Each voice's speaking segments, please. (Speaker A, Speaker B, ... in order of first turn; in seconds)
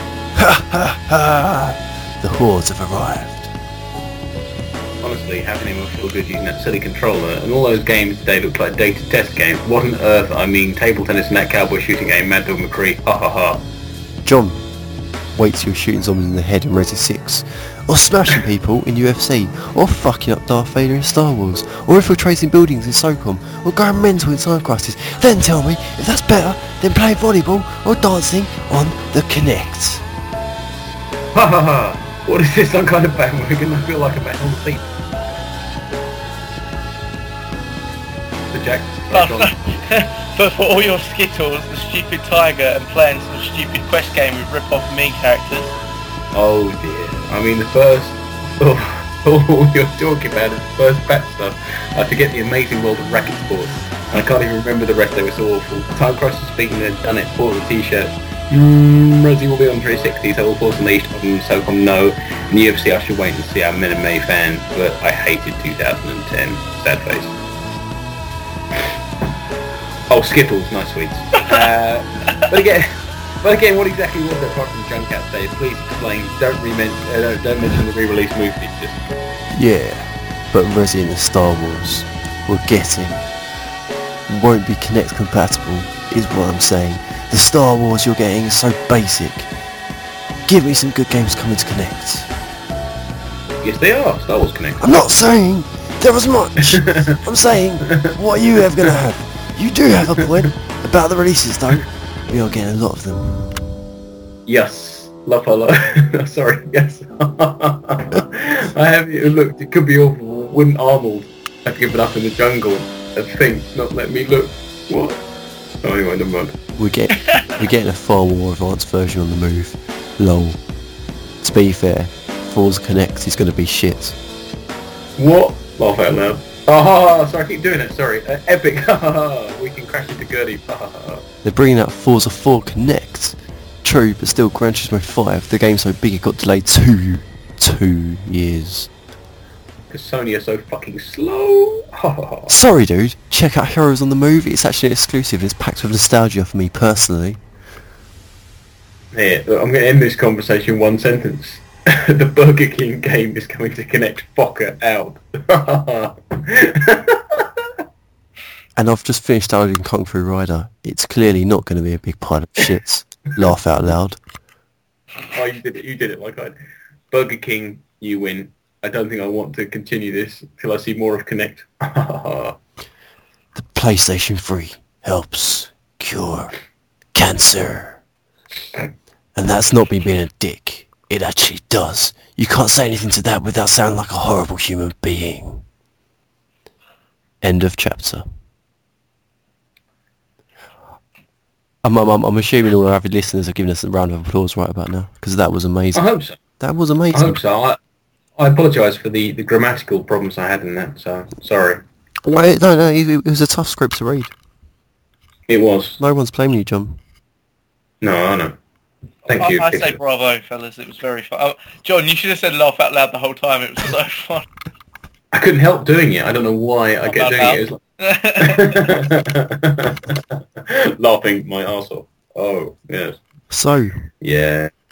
Speaker A: 0.3-3.5, 14.2-14.6, 15.3-30.0, 79.5-83.3, 84.3-89.5, 90.5-92.3, 94.8-103.6, 116.8-120.6, 121.4-124.2, 131.4-138.9, 142.5-147.4, 158.8-164.2, 173.5-176.5, 177.1-178.0, 179.3-185.6, 187.4-188.2, 191.8-196.0, 196.6-197.4, 202.2-204.3, 206.0-207.0, 223.5-224.1
Speaker B: 5.0-13.7, 31.3-34.9, 38.5-39.5, 46.3-67.3, 70.1-79.0, 93.6-94.8, 96.7-97.1, 104.5-115.2, 115.8-116.5, 125.2-131.2, 139.9-142.6, 149.1-157.7, 165.3-166.6, 167.1-172.6, 195.9-196.4, 197.1-197.8, 198.4-201.8, 205.5-206.0, 208.0-208.6, 209.2-210.0, 215.3-217.8, 218.4-223.2, 224.2-224.7
Speaker C: 39.1-45.7, 117.2-117.6, 209.3-214.4, 217.0-218.9